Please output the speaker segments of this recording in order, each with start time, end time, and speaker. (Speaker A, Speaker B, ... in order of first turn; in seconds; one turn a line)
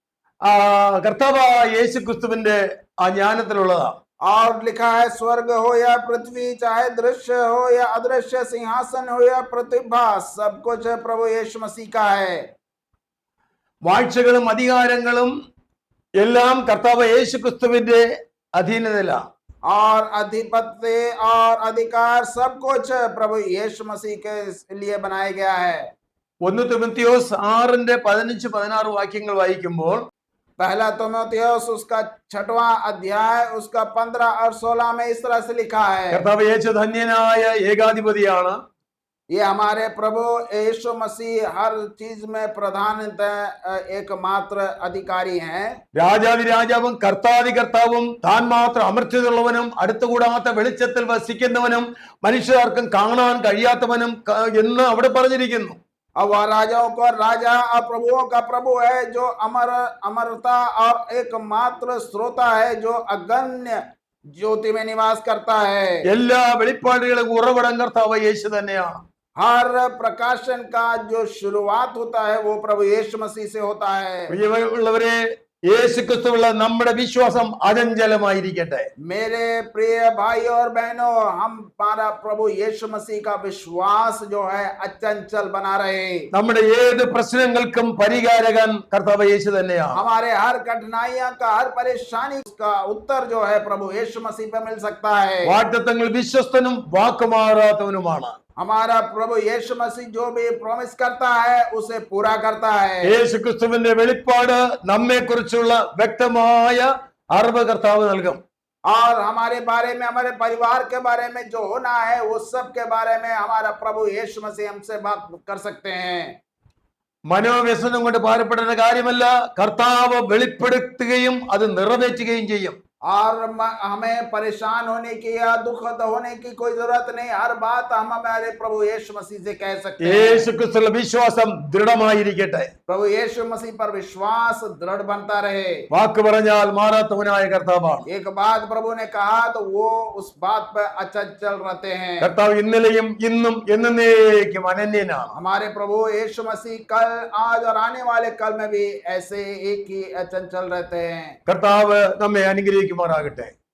Speaker A: 0.4-4.0
Speaker B: 4.2-12.4
Speaker A: 13.8-15.3
Speaker A: 16.2-19.3
Speaker B: 19.6-25.9
Speaker A: 26.4-30.1
Speaker B: 30.6-36.2
Speaker A: 36.1-38.6
Speaker B: 39.3-45.8
Speaker A: 46.0-55.8
Speaker B: 56.2-63.8
Speaker B: 64.3-66.1
Speaker A: 66.1-69.0
Speaker B: 69.4-74.4
Speaker A: 74.3-78.9
Speaker B: 79.0-86.3
Speaker A: 86.3-90.0
Speaker B: 89.9-95.5
Speaker A: 95.5-98.3
Speaker B: 98.6-103.1
Speaker A: 103.0-108.4
Speaker B: 108.9-116.4
Speaker A: 117.3-122.8
Speaker B: 123.0-130.5
Speaker A: 130.0-132.7
Speaker B: 132.9-135.8
Speaker A: 135.9-138.1
Speaker B: 138.1-142.3
Speaker A: 142.2-145.3
Speaker B: 145.3-151.4
Speaker A: 151.5-153.5